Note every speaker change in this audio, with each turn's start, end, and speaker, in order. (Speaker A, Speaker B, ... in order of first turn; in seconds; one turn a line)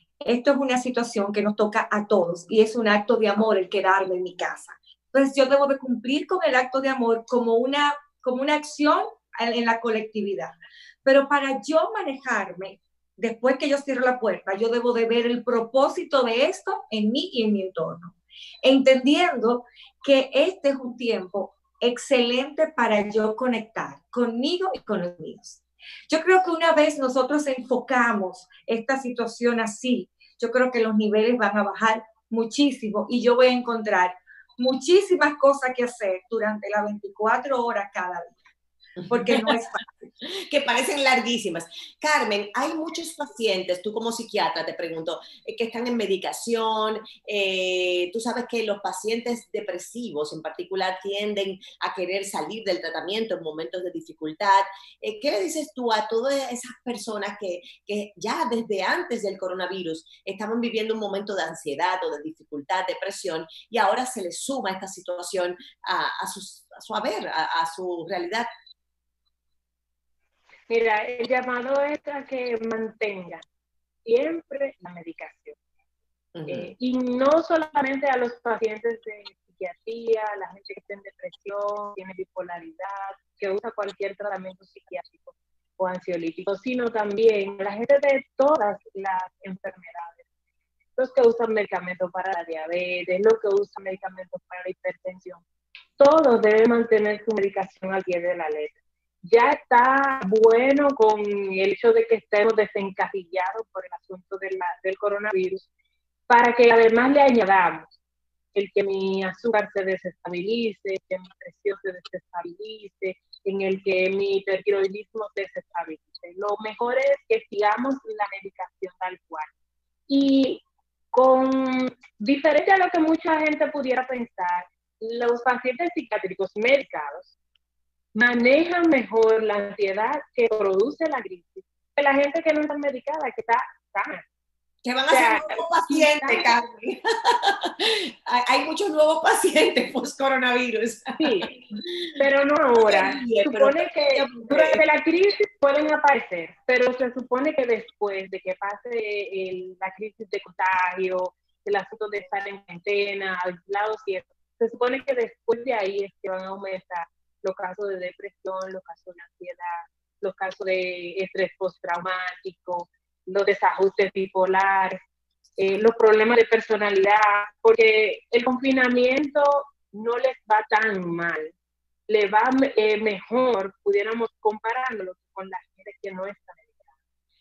Speaker A: 0.2-38.5
Speaker B: 39.0-39.6
Speaker A: 39.1-40.1
Speaker B: 40.2-68.5
Speaker C: 70.7-73.5
Speaker C: 74.0-75.6
Speaker B: 76.3-76.7
Speaker C: 76.5-90.2
Speaker C: 91.0-95.4
Speaker C: 96.0-105.7
Speaker C: 106.3-107.9
Speaker C: 108.5-119.5
Speaker C: 120.1-127.3
Speaker C: 128.1-134.2
Speaker B: 134.8-142.1
Speaker C: 135.1-136.5
Speaker C: 141.2-165.0
Speaker B: 142.8-144.8
Speaker C: 165.6-171.5
Speaker C: 172.1-176.9